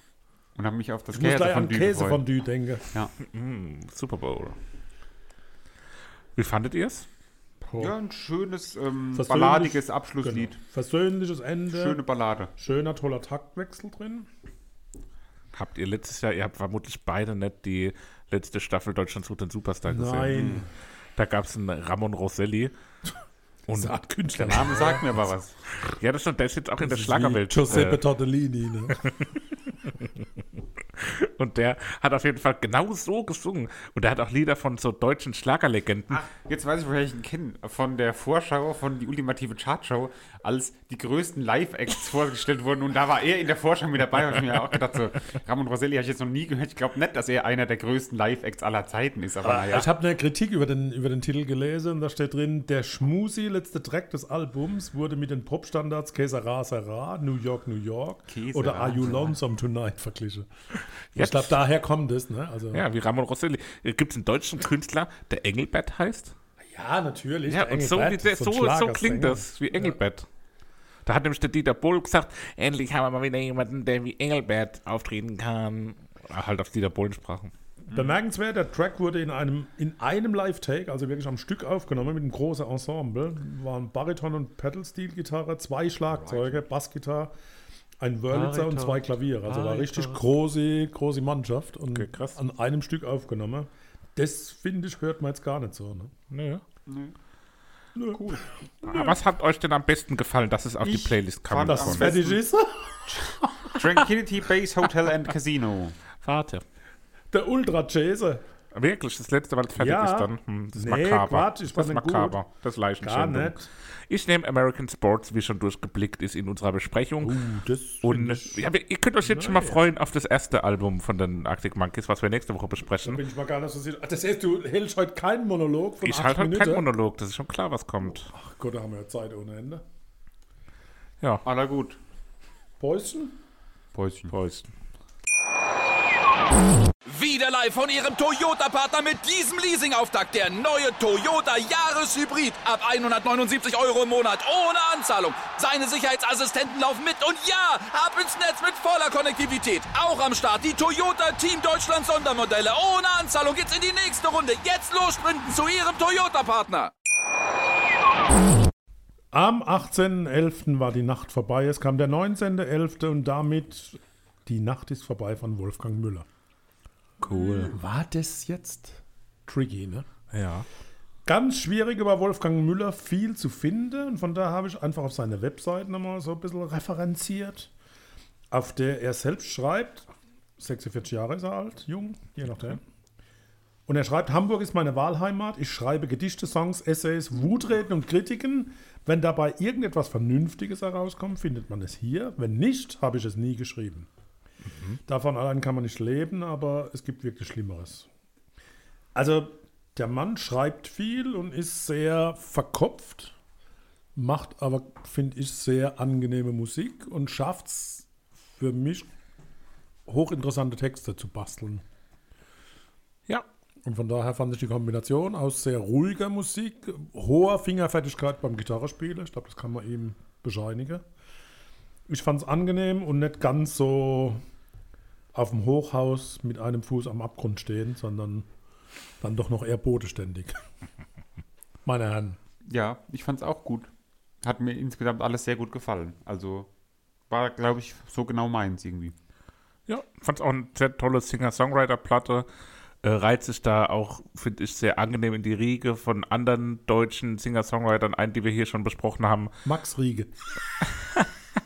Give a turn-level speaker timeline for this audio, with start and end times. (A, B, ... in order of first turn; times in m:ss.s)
0:00.6-0:02.2 A
0:01.1-0:02.8 B
0:03.2-0:04.6 C
0:06.4-0:07.1 C
0:07.6-0:07.9 B
0:07.8-0:10.6 A
0:09.1-0:12.0 B
0:11.7-0:12.5 A
0:12.6-0:14.3 B
0:15.5-0:20.6 C
0:19.9-0:20.7 B
0:20.3-0:20.6 A
0:21.2-0:22.7 C
0:23.7-0:23.9 C
0:23.7-0:25.1 B
0:24.4-0:25.5 A
0:25.8-0:28.0 C
0:26.8-0:29.0 B
0:28.9-0:30.2 C
0:30.9-0:36.2 C
0:36.1-0:49.9 A
0:49.4-1:00.5 B
0:58.3-0:59.4 A
1:01.1-1:01.6 C
1:01.1-1:02.8 B
1:02.7-1:06.3 C
1:06.7-1:10.0 B
1:07.5-1:10.3 C
1:11.0-1:17.5 C
1:17.9-1:27.3 B
1:26.1-1:26.6 A
1:28.0-1:36.1 B
1:28.3-1:30.2 C
1:31.9-1:32.4 C
1:36.3-1:36.6 C
1:36.8-1:37.1 A
1:38.0-1:39.1 B
1:38.1-1:38.4 A
1:38.8-1:42.2 C
1:40.8-1:42.4 A
1:41.7-1:43.2 B
1:43.7-1:46.0 A
1:46.2-1:46.6 C
1:47.3-1:48.4 B
1:48.7-1:57.4 C
1:49.7-1:52.4 B
1:53.0-1:53.7 B
1:57.2-1:58.6 B
1:58.0-2:03.2 C
1:59.2-1:59.8 B
2:03.0-2:06.9 B
2:06.0-2:08.3 C
2:08.3-2:09.8 B
2:11.4-2:12.0 A
2:12.8-2:13.4 B
2:13.9-2:14.3 A
2:14.3-2:14.7 C
2:17.1-2:36.9 D
2:39.3-2:46.2 B
2:47.2-2:47.7 C
2:47.2-2:47.7 A
2:47.7-2:50.0 B
2:50.3-2:50.7 C
2:51.2-2:57.7 B
2:58.5-3:02.8 B
3:03.9-3:14.1 B
3:14.6-3:15.0 C
3:15.1-3:18.1 B
3:19.1-3:23.3 B
3:24.2-3:29.1 B
3:30.1-3:31.8 B
3:33.8-3:41.0 B
3:42.1-3:44.4 B
3:45.3-3:48.5 B
3:49.2-3:50.6 B
3:51.8-3:52.4 B
3:52.6-3:53.9 A
3:54.4-3:56.7 A
3:57.3-3:59.1 A
3:59.9-4:02.5 C
4:03.0-4:09.5 C
4:09.6-4:10.3 B
4:10.8-4:11.3 C